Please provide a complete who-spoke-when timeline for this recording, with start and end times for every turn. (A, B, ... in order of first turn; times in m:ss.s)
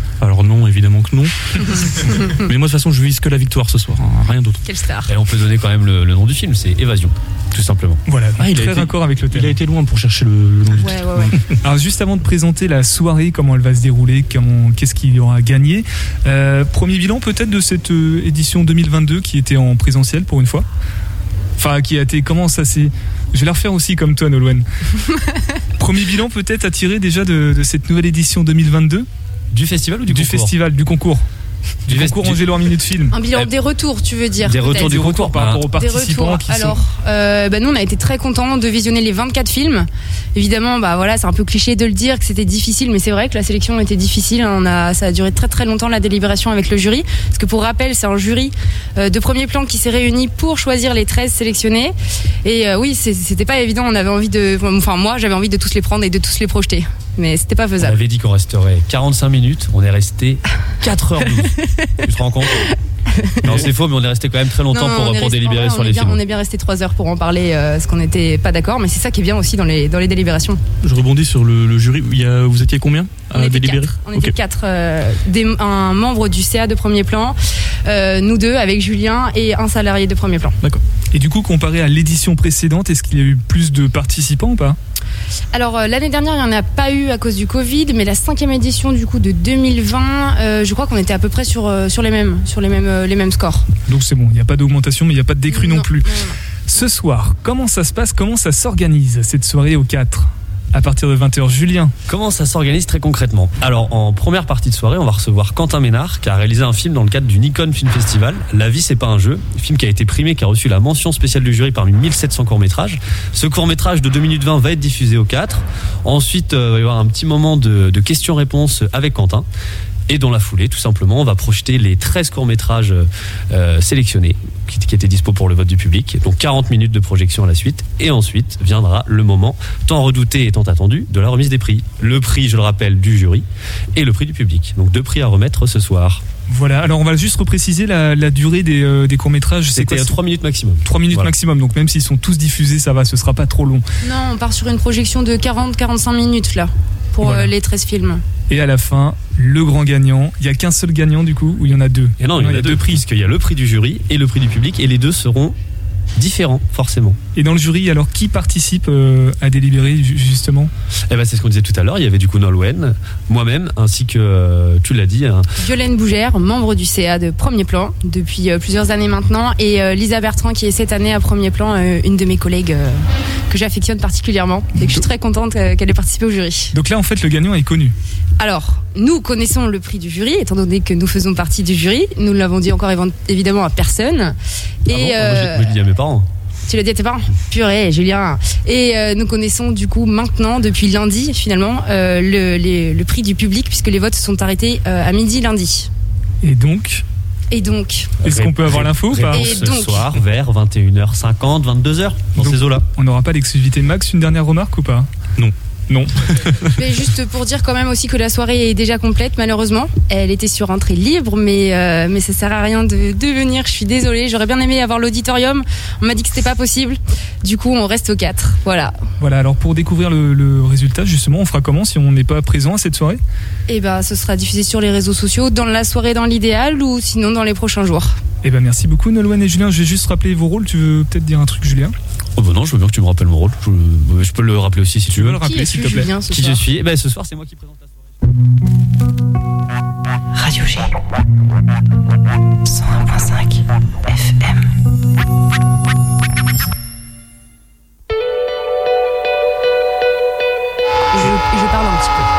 0:00.2-0:04.6 A
0:04.6-0:05.1 B
0:05.1-0:08.0 C
0:08.1-0:09.6 D
0:08.4-0:11.5 A
0:10.8-0:11.3 B
0:11.6-0:20.7 D
0:21.6-0:24.7 D
0:25.8-0:29.1 D
0:29.5-0:30.5 C
0:30.1-0:31.3 D
0:31.9-0:33.2 D
0:31.9-0:32.7 C
0:33.1-0:34.9 B
0:34.4-0:35.7 C
0:34.6-0:36.8 D
0:35.7-0:58.0 B
0:57.8-1:02.7 C
1:01.2-1:01.9 B
1:03.2-1:03.5 B
1:03.4-1:06.2 C
1:04.7-1:10.6 B
1:10.8-1:14.3 A
1:13.3-1:20.6 B
1:21.1-1:24.8 D
1:25.5-1:33.7 B
1:33.9-1:41.9 D
1:35.5-1:36.4 B
1:42.1-1:59.5 C
2:00.1-2:16.2 C
2:16.5-2:20.2 D
2:19.7-2:21.3 C
2:20.8-2:23.8 D
2:24.0-2:28.2 B
2:27.2-2:27.5 D
2:28.5-2:33.0 D
2:32.2-2:35.6 C
2:36.2-2:37.2 C
2:37.4-2:40.7 D
2:41.1-2:45.5 C
2:45.6-2:56.7 B
2:54.8-2:55.0 D
2:56.7-2:58.0 D
2:58.4-3:05.7 B
3:04.9-3:06.3 C
3:06.7-3:15.9 B
3:16.4-3:17.0 D
3:17.5-3:18.1 B
3:18.2-3:22.9 C
3:18.2-3:19.6 D
3:19.3-3:20.2 B
3:23.0-3:25.1 D
3:26.8-3:39.0 B
3:39.2-3:43.2 D
3:43.7-3:48.2 B
3:48.4-3:52.0 D
3:52.4-3:57.8 C
3:55.1-3:56.1 D
3:55.4-3:56.6 B
4:00.4-4:01.0 E
4:02.6-4:04.7 E
4:11.1-4:12.3 B